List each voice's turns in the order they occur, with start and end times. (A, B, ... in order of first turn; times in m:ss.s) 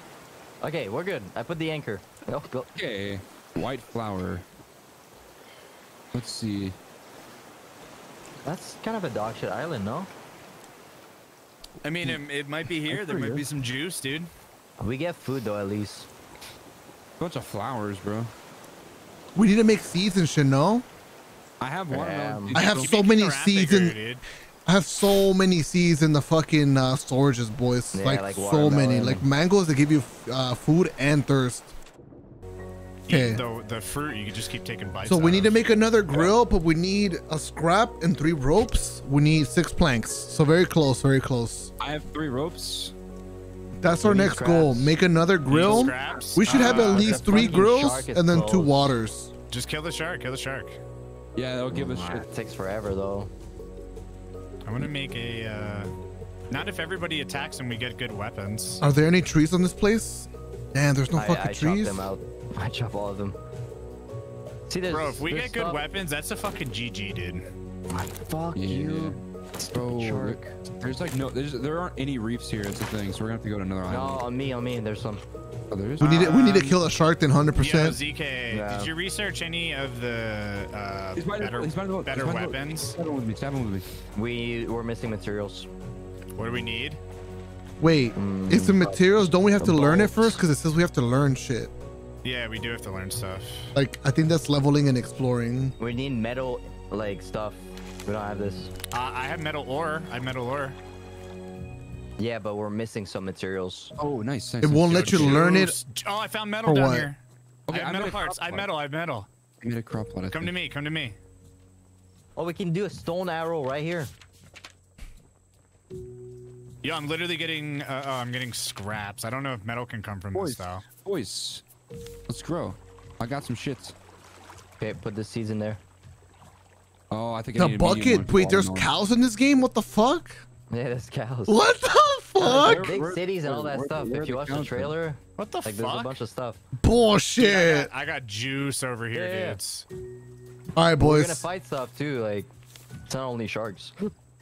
0:00.6-0:02.7 A
0:02.7-0:04.4 B
0:06.1-0:06.8 B
0:08.4-0:10.1 A
0:11.8-0:14.3 C
0:12.8-0:13.5 B
0:14.8-0:16.1 A
0:17.2-0:18.3 B
0:19.4-0:20.8 D
0:21.6-0:22.9 B
0:21.9-0:22.6 A
0:22.5-0:24.0 D
0:22.7-0:24.2 C
0:24.7-0:31.7 D
0:27.9-0:29.2 A
0:33.1-0:35.8 C
0:33.1-0:33.4 D
0:35.0-0:41.7 D
0:41.8-0:42.9 B
0:43.8-0:49.3 D
0:44.0-0:44.9 A
0:45.5-0:47.6 C
0:45.6-0:46.2 B
0:46.4-0:48.9 A
0:49.5-0:50.8 C
0:51.4-0:52.3 B
0:51.7-0:53.3 A
0:54.6-0:55.9 C
0:56.5-0:58.8 C
0:58.8-1:02.1 D
1:01.1-1:03.4 A
1:04.7-1:05.8 A
1:04.9-1:07.5 C
1:07.9-1:09.2 A
1:08.6-1:09.2 B
1:09.7-1:14.2 B
1:09.8-1:10.6 A
1:13.9-1:15.2 A
1:15.7-1:16.6 B
1:16.0-1:16.8 C
1:16.0-1:18.0 D
1:17.6-1:23.0 C
1:18.5-1:18.9 A
1:21.2-1:23.9 B
1:24.2-1:25.7 A
1:26.4-1:27.0 C
1:27.8-1:31.7 D
1:28.2-1:30.1 A
1:29.6-1:30.4 B
1:32.2-1:33.7 C
1:33.8-1:35.7 D
1:35.8-1:38.7 A
1:38.9-1:40.8 C
1:42.2-1:44.0 A
1:44.0-1:45.7 B
1:44.6-1:45.8 D
1:45.0-1:49.3 C
1:46.6-1:47.1 D
1:47.7-1:48.7 B
1:49.6-1:50.5 B
1:50.3-1:51.2 C
1:52.4-1:54.1 A
1:56.8-2:00.8 C
2:00.3-2:01.6 B
2:02.3-2:04.0 B
2:04.8-2:05.8 A
2:07.1-2:08.9 B
2:07.6-2:10.4 D
2:10.7-2:11.6 A
2:11.5-2:12.9 D
2:12.4-2:14.9 B
2:12.4-2:16.6 A
2:15.4-2:16.2 C
2:16.8-2:17.9 D
2:17.4-2:19.9 C
2:19.1-2:19.6 A
2:20.8-2:21.5 D
2:21.0-2:22.5 A
2:23.1-2:24.1 A